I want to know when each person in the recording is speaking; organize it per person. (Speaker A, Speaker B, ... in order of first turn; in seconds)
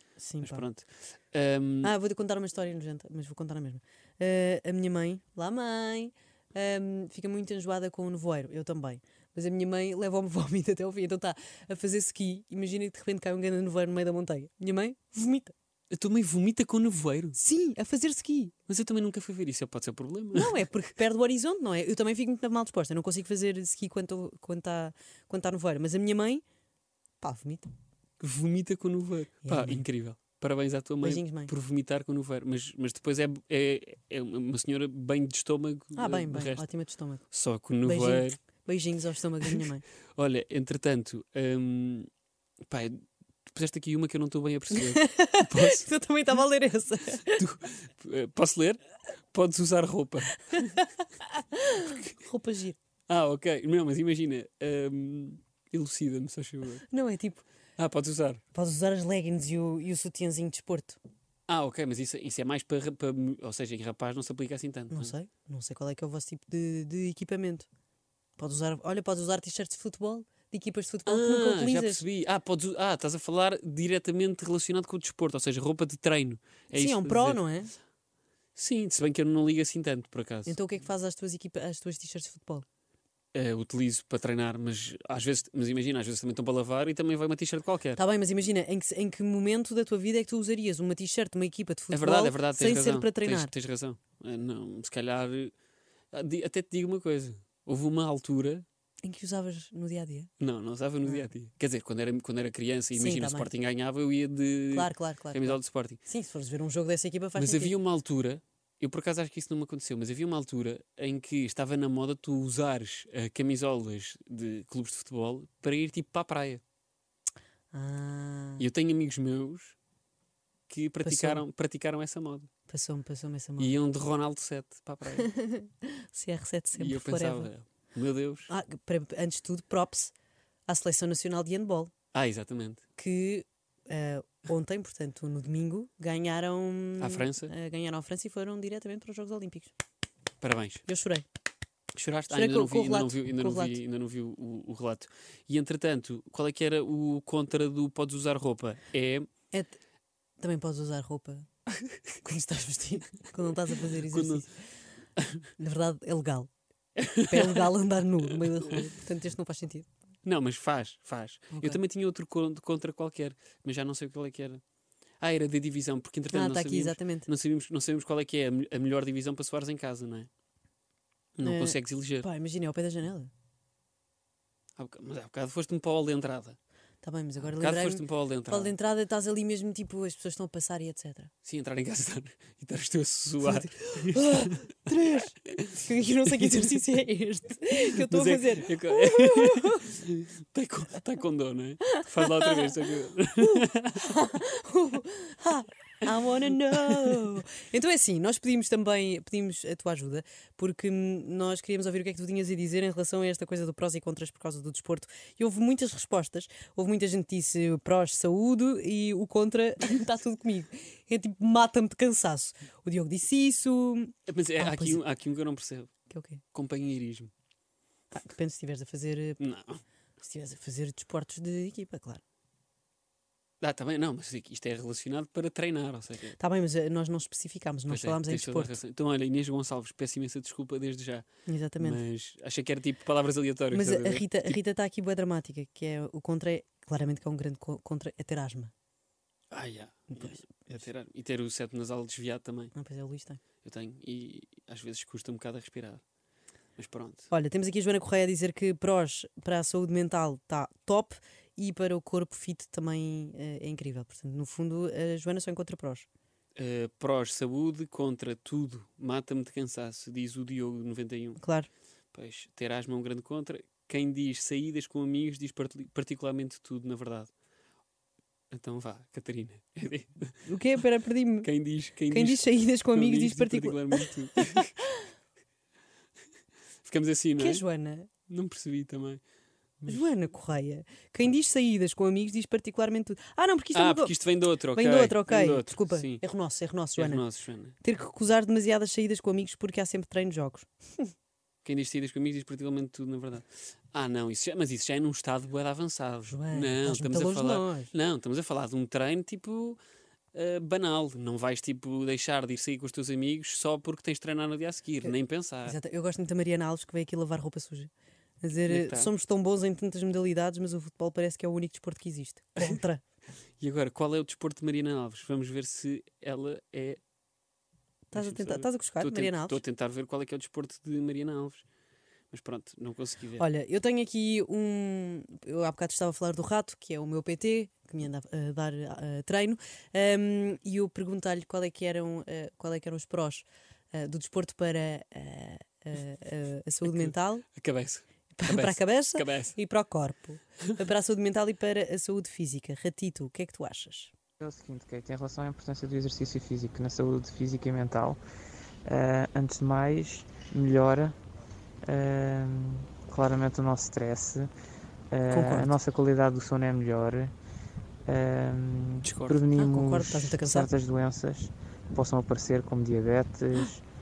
Speaker A: 0.2-0.6, 1.8-15.5, 17.4-18.5, 20.3-26.4, 27.2-27.7, 29.4-29.9, 31.0-31.5, 36.0-37.3, 37.8-39.8, 44.7-47.4, 50.5-52.8, 56.9-57.4, 58.5-61.0, 64.9-67.7, 68.4-72.0, 76.7-77.7, 80.5-82.6, 88.0-93.5, 99.0-100.3, 102.9-103.5, 104.7-107.7, 117.7-118.6, 121.0-121.4, 122.7-123.8, 125.2-127.5, 128.5-130.1, 130.7-131.9, 133.0-139.7, 140.9-141.2, 142.3-143.8, 149.5-149.8, 150.4-151.5, 152.2-154.5, 155.6-156.5, 157.3-159.9, 161.5-161.8, 166.3-167.3, 171.4-173.3, 177.0-181.3, 183.4-189.8, 191.9-192.7, 193.4-215.0, 216.1-216.4, 218.1-219.4, 220.2-222.2, 226.4-228.8, 231.4-232.0, 233.7-238.7, 240.1-240.8, 242.7-243.4, 247.3-256.1, 261.4-261.7, 270.4-271.5, 272.1-274.6, 277.4-278.1, 279.9-284.1, 284.7-287.2, 287.8-291.1, 296.3-297.9, 305.6-313.0, 318.1-319.6, 323.4-337.4, 338.4-344.1, 355.3-355.7, 359.5-360.7
Speaker B: 0.4-1.9, 15.9-17.4, 18.7-20.6, 28.2-36.6, 37.3-38.4, 40.1-42.1, 42.7-45.9, 47.3-48.8, 49.3-50.8, 51.8-52.1, 53.1-56.9, 57.8-58.4, 61.5-65.1, 71.0-77.4, 78.5-80.6, 83.3-88.0, 91.9-95.5, 96.1-98.6, 100.4-106.0, 107.3-116.6, 118.6-119.8, 120.7-122.5, 123.6-125.3, 126.8-128.5, 132.1-132.8, 137.0-137.5, 140.4-140.8, 141.9-149.3, 154.1-154.4, 157.0-157.7, 160.2-164.6, 165.2-170.3, 171.4-172.2, 174.8-176.6, 177.6-178.7, 181.4-184.6, 185.5-185.8, 188.1-194.1, 196.9-197.2, 214.3-215.9, 216.5-217.3, 219.4-219.8, 223.6-226.4, 227.9-231.2, 231.8-234.6, 239.5-242.7, 243.6-246.0, 246.8-247.3, 256.6-261.4, 262.1-267.3, 268.5-270.4, 271.4-274.7, 276.8-277.6, 278.3-279.2, 279.8-280.1, 283.7-286.2, 286.9-287.8, 291.6-299.8, 300.3-305.8, 308.7-309.1, 313.6-317.0, 318.1-321.6, 322.3-323.4, 336.9-339.6, 359.0-359.4
Speaker C: 344.4-348.2, 348.9-351.2, 351.8-354.5, 355.1-357.3, 358.1-363.8